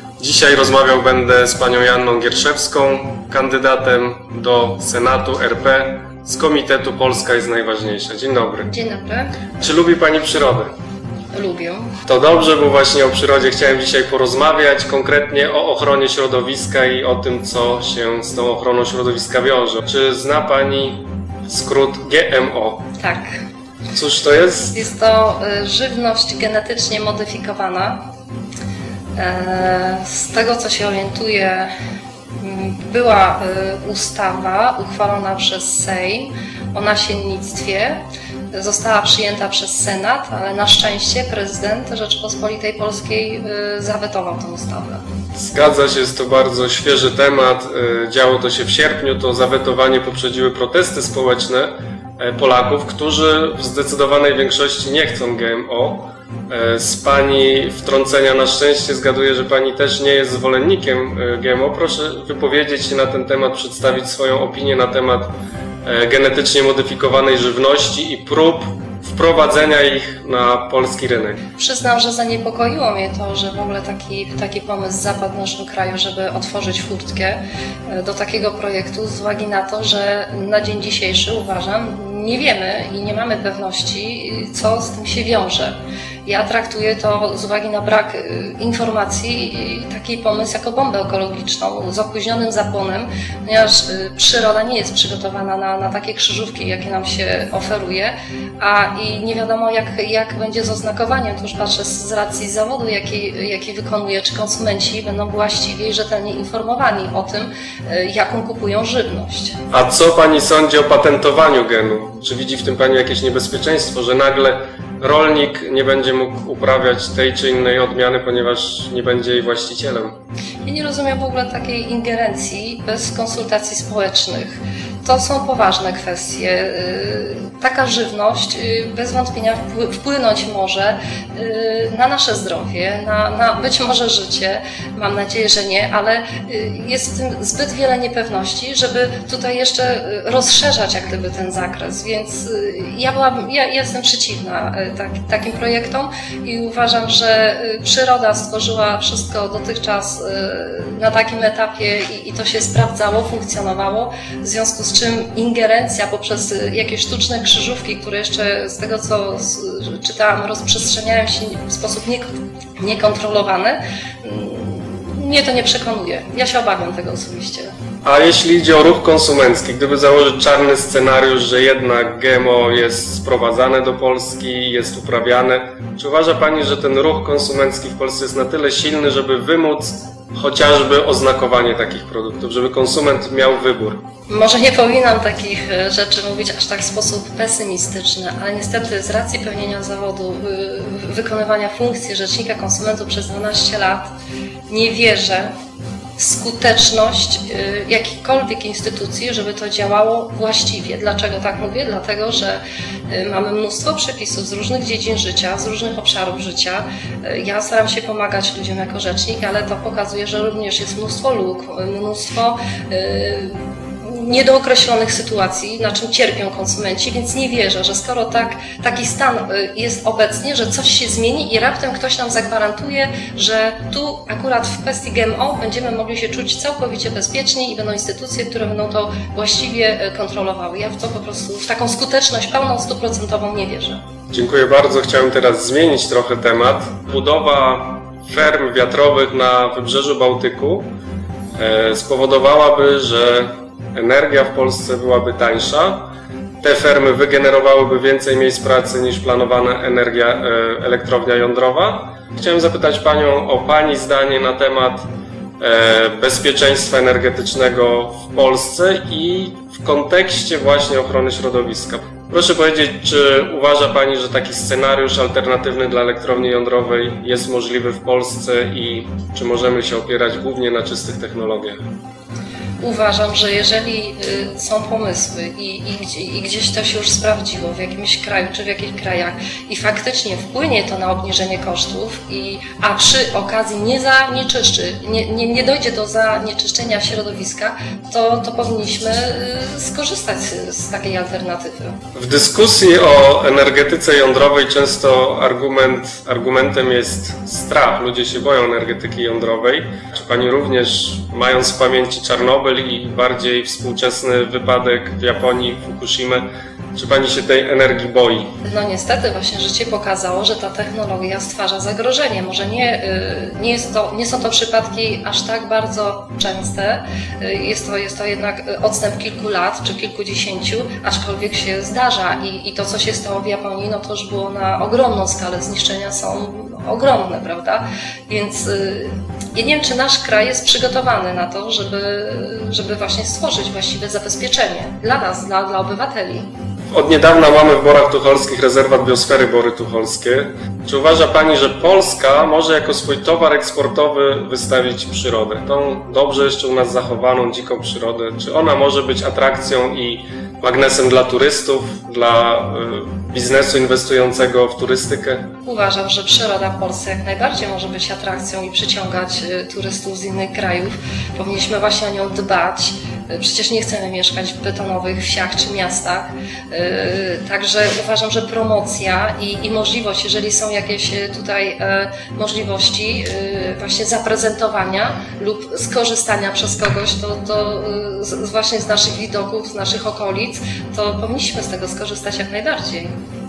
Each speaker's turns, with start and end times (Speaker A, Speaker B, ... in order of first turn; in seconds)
Speaker A: 0.2-8.7, 9.6-10.7, 12.1-22.9, 23.9-24.8, 45.4-65.3, 65.8-71.4, 109.7-120.2, 168.0-184.0, 234.3-240.9, 241.6-246.1, 246.6-255.1, 255.6-271.8, 292.1-308.5, 336.9-355.5
Speaker B: 8.7-9.4, 11.3-11.9, 23.0-23.4, 24.7-28.0, 29.2-31.7, 32.4-38.0, 38.5-45.0, 71.6-109.6, 120.6-167.7, 184.3-194.1, 194.7-195.5, 196.2-234.0, 272.8-292.0, 308.7-336.5, 355.6-383.1